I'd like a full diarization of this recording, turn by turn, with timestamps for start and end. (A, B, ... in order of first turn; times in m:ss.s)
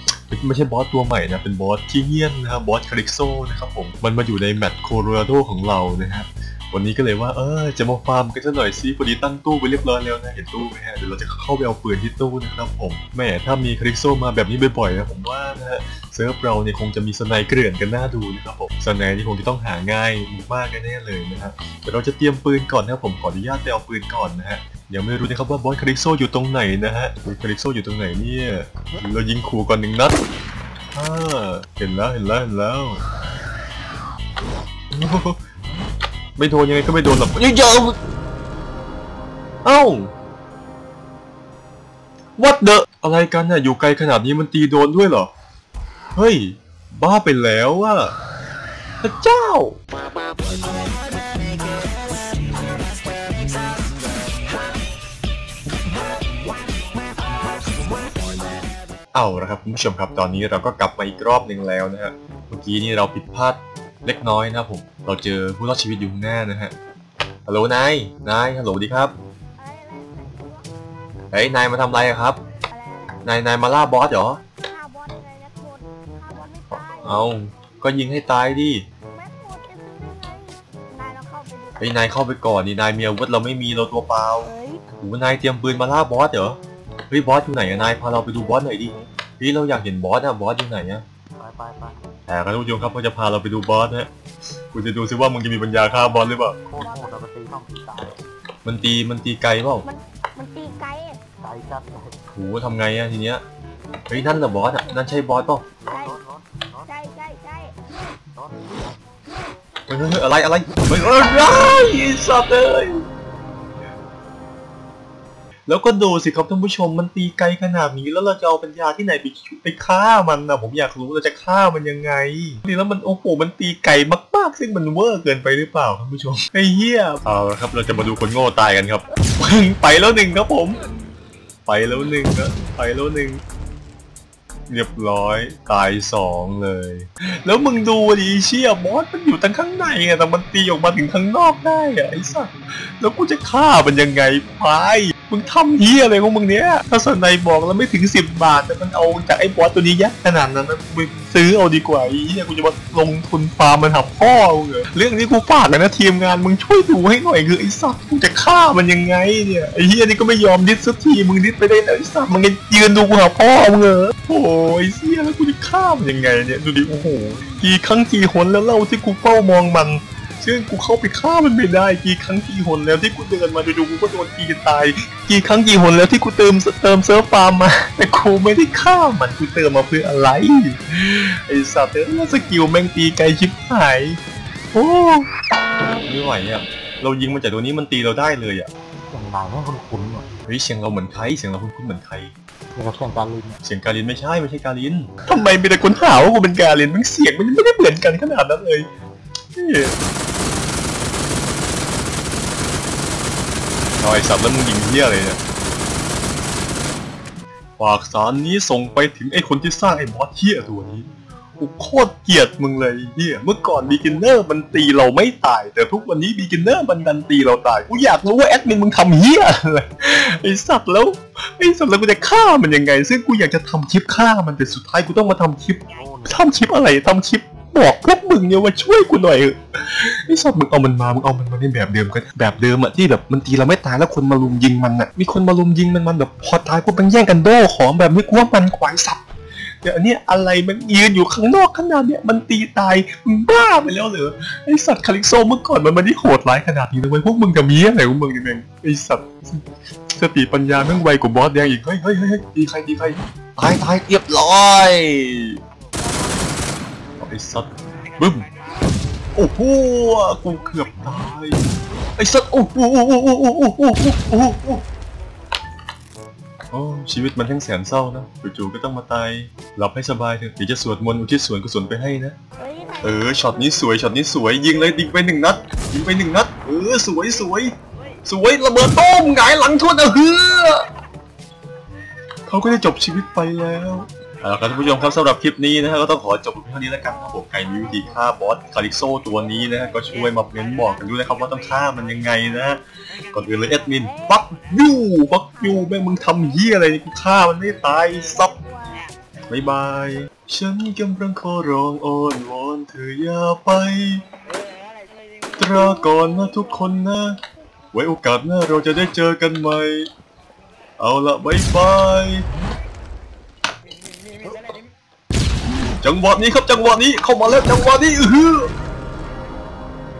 0:00.3-0:30.2 A
0:31.0-0:33.0 A
0:34.9-0:35.4 A
0:36.4-0:38.0 A
0:39.6-0:40.1 A
0:42.4-0:45.3 A
0:46.2-0:48.1 A
0:49.0-0:49.8 A
0:59.1-1:06.7 A
1:07.5-1:09.1 A
1:09.6-1:10.7 B
1:11.3-1:12.4 A
1:12.7-1:13.2 B
1:13.2-1:14.4 A
1:14.6-1:17.3 B
1:16.9-1:18.9 A
1:19.1-1:22.0 B
1:21.8-1:26.6 A
1:24.5-1:24.8 B
1:27.1-1:31.0 A
1:31.4-1:32.0 C
1:32.3-1:34.1 A
1:34.7-1:36.6 A
1:36.6-1:38.2 C
1:36.8-1:37.2 B
1:38.6-1:39.9 A
1:39.8-1:41.2 B
1:41.4-1:42.2 C
1:42.3-1:43.4 A
1:44.1-1:45.7 A
1:44.6-1:45.3 B
1:45.8-1:46.9 C
1:45.9-1:46.2 B
1:46.9-1:47.8 B
1:48.4-1:48.9 C
1:49.9-1:53.0 A
1:55.7-2:10.8 A
2:11.7-2:13.4 A
2:14.7-3:04.2 A
3:04.7-3:05.3 A
3:06.0-3:08.7 A
3:09.1-3:10.3 C
3:10.5-3:12.3 A
3:12.8-3:13.6 C
3:13.6-3:18.9 A
3:19.6-3:20.0 A
3:24.0-3:25.4 A
3:27.8-3:59.2 A
3:33.8-3:34.2 C
3:45.9-3:46.4 C
3:59.8-4:15.6 A
4:17.2-4:18.5 A
4:19.4-4:21.6 A
4:22.2-4:24.9 A
4:26.7-4:32.4 A
4:32.6-4:33.4 B
4:33.0-4:37.7 A
4:38.2-4:40.9 A
4:42.5-4:58.5 A
4:47.4-4:47.6 B
4:58.5-4:59.1 B
4:59.5-5:04.2 A
5:05.6-5:07.4 A
5:07.9-5:10.1 A
5:11.0-5:12.5 A
5:16.0-5:18.7 A